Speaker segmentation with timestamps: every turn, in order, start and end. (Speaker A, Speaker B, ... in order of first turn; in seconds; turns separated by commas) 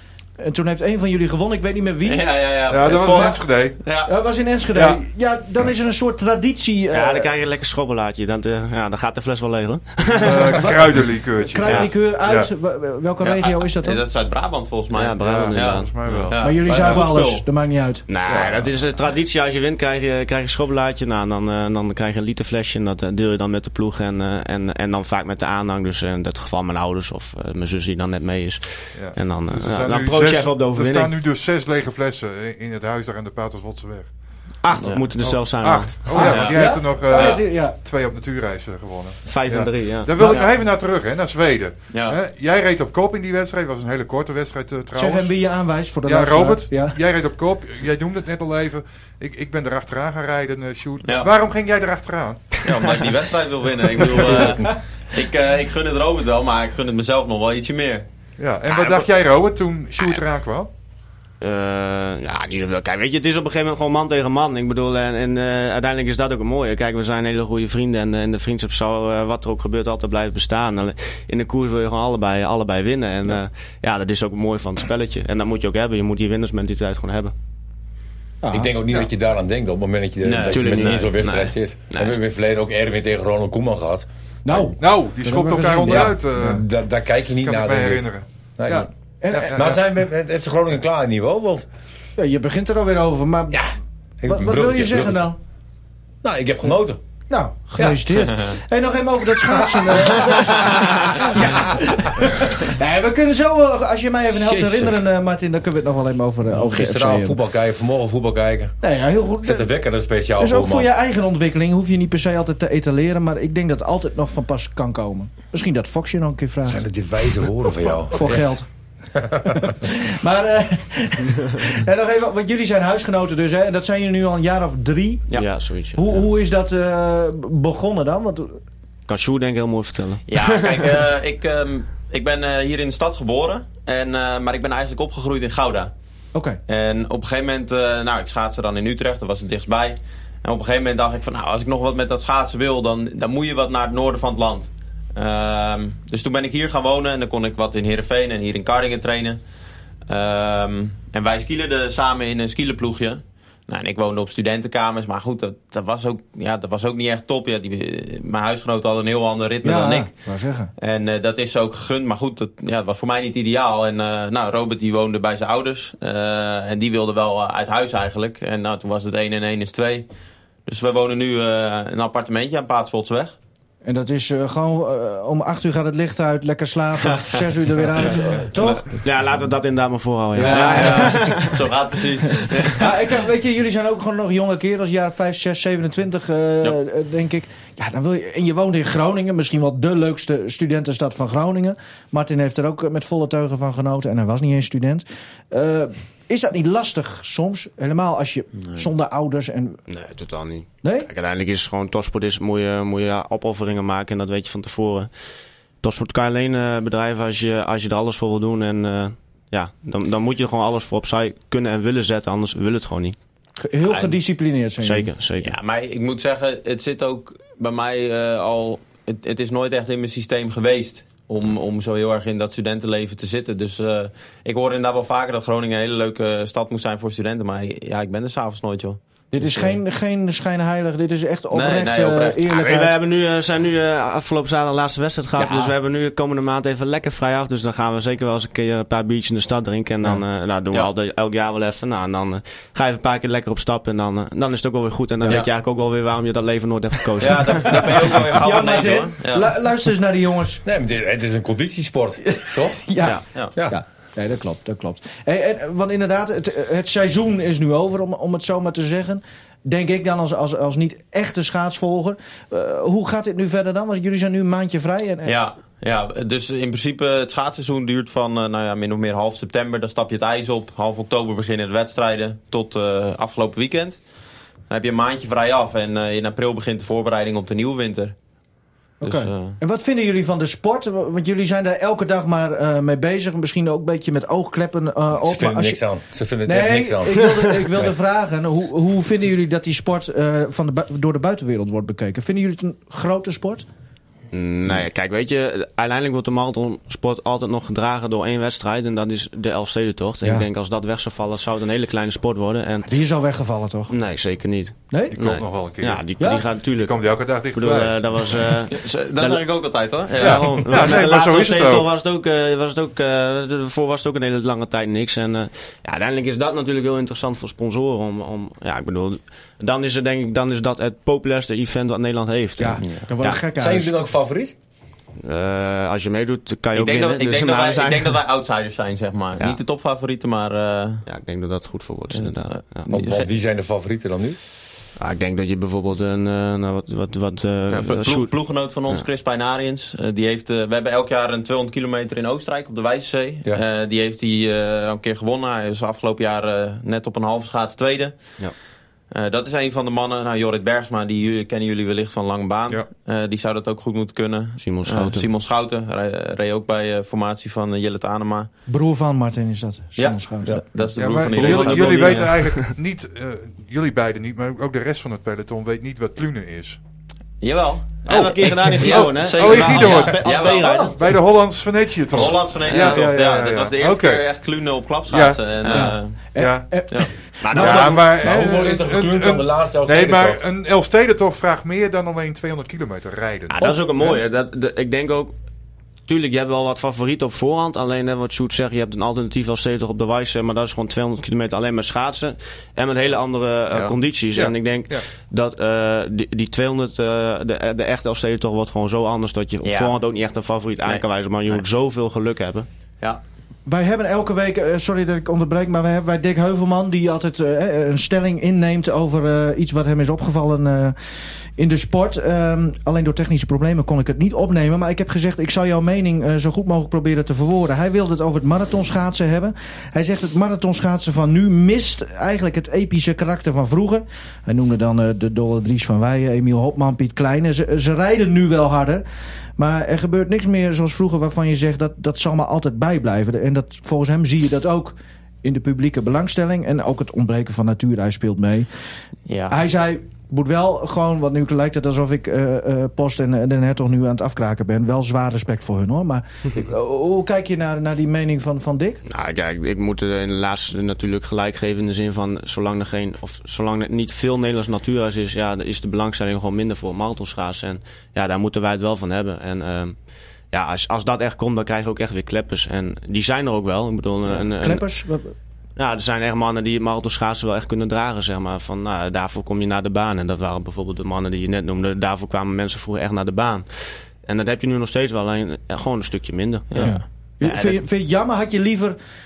Speaker A: 0.4-2.3, Speaker B: 2.0-4.1, Speaker C: 2.7-3.8, Speaker A: 2.9-3.4, Speaker A: 4.1-7.3, Speaker C: 4.7-5.0, Speaker D: 6.9-10.7, Speaker C: 10.2-12.5, Speaker A: 10.6-14.0, Speaker B: 13.2-17.4, Speaker D: 14.9-17.1, Speaker C: 15.2-16.4, Speaker A: 16.4-18.1, Speaker D: 18.1-31.2, Speaker C: 18.2-18.8, Speaker C: 28.9-45.3, Speaker D: 34.6-36.6, Speaker B: 34.8-35.0, Speaker A: 36.1-37.8, Speaker B: 36.2-36.6, Speaker D: 39.3-40.4, Speaker B: 40.2-40.5, Speaker B: 41.9-42.2, Speaker A: 45.0-47.0, Speaker C: 46.0-52.5, Speaker B: 51.0-51.3, Speaker B: 52.6-58.1, Speaker C: 54.2-54.5, Speaker D: 54.2-54.6, Speaker C: 58.4-60.7, Speaker D: 58.8-59.0, Speaker D: 61.4-77.3, Speaker A: 78.4-78.7, Speaker E: 78.5-84.7, Speaker B: 80.2-81.2, Speaker D: 80.5-82.2, Speaker A: 84.5-86.6, Speaker C: 84.8-86.7, Speaker E: 85.8-91.7, Speaker C: 87.4-89.8, Speaker A: 89.2-89.6, Speaker A: 92.2-93.6, Speaker E: 93.5-95.3, Speaker A: 94.3-95.4, Speaker E: 96.2-97.0, Speaker A: 97.3-107.4, Speaker E: 101.3-102.0, Speaker E: 104.3-105.0, Speaker E: 106.5-108.8, Speaker A: 108.8-109.7, Speaker E: 109.4-110.9, Speaker A: 110.4-116.9, Speaker E: 116.7-118.6, Speaker A: 117.4-118.7, Speaker E: 119.1-119.7, Speaker A: 119.5-125.4, Speaker D: 125.3-126.2, Speaker A: 125.9-128.6, Speaker D: 129.1-131.1, Speaker B: 130.3-135.9, Speaker A: 136.3-136.6, Speaker B: 136.7-149.4, Speaker B: 150.1-160.1, Speaker A: 159.6-160.7, Speaker B: 160.8-170.1, Speaker B: 170.7-173.3, Speaker A: 173.8-179.0, Speaker D: 179.0-181.7, Speaker A: 180.3-181.4, Speaker B: 180.4-183.0, Speaker D: 182.4-182.7, Speaker A: 182.8-199.8, Speaker D: 199.9-205.1, Speaker A: 200.8-201.1, Speaker D: 205.8-213.2, Speaker A: 213.6-215.1, Speaker B: 213.8-214.2, Speaker D: 214.8-215.5, Speaker B: 215.4-229.8, Speaker A: 229.3-233.0, Speaker B: 231.5-232.4, Speaker D: 232.5-248.3, Speaker B: 235.4-235.8, Speaker B: 247.2-249.5, Speaker A: 248.3-250.6, Speaker E: 250.7-253.8, Speaker A: 252.8-265.3, Speaker B: 265.2-274.0, Speaker B: 274.7-278.2, Speaker A: 279.0-285.8, Speaker B: 279.0-279.6, Speaker E: 285.2-287.9, Speaker A: 286.4-293.7, Speaker D: 294.3-302.9, Speaker A: 300.2-300.5, Speaker A: 302.9-303.9, Speaker D: 303.9-323.4, Speaker A: 304.9-305.2, Speaker C: 305.1-308.5, Speaker A: 306.2-306.5, Speaker B: 308.7-311.1, Speaker C: 310.2-311.9, Speaker A: 322.6-323.9, Speaker E: 323.6-324.6, Speaker D: 325.2-328.2, Speaker B: 326.8-331.1, Speaker D: 331.1-332.9, Speaker B: 332.1-333.3, Speaker E: 332.9-334.4, Speaker D: 335.0-339.0, Speaker B: 337.7-348.4, Speaker B: 349.1-358.5, Speaker D: 354.6-355.3, Speaker A: 358.7-360.6, Speaker B: 360.7-362.4, Speaker C: 361.0-366.8, Speaker D: 361.4-362.7, Speaker B: 367.4-370.9, Speaker D: 368.1-371.0, Speaker C: 368.1-374.2, Speaker B: 372.1-376.2, Speaker D: 372.2-373.1, Speaker C: 375.1-376.9, Speaker A: 375.7-378.0, Speaker D: 377.4-378.5, Speaker C: 377.6-384.2, Speaker E: 378.2-380.4, Speaker D: 383.5-385.4, Speaker D: 386.1-402.7, Speaker C: 394.3-395.1, Speaker B: 399.6-399.9, Speaker B: 400.8-401.6, Speaker A: 403.7-429.0, Speaker A: 429.6-438.7, Speaker B: 439.3-439.6, Speaker A: 439.5-449.0, Speaker D: 449.1-464.9, Speaker A: 464.6-465.4, Speaker D: 465.8-477.9, Speaker B: 476.7-477.0, Speaker A: 476.8-479.0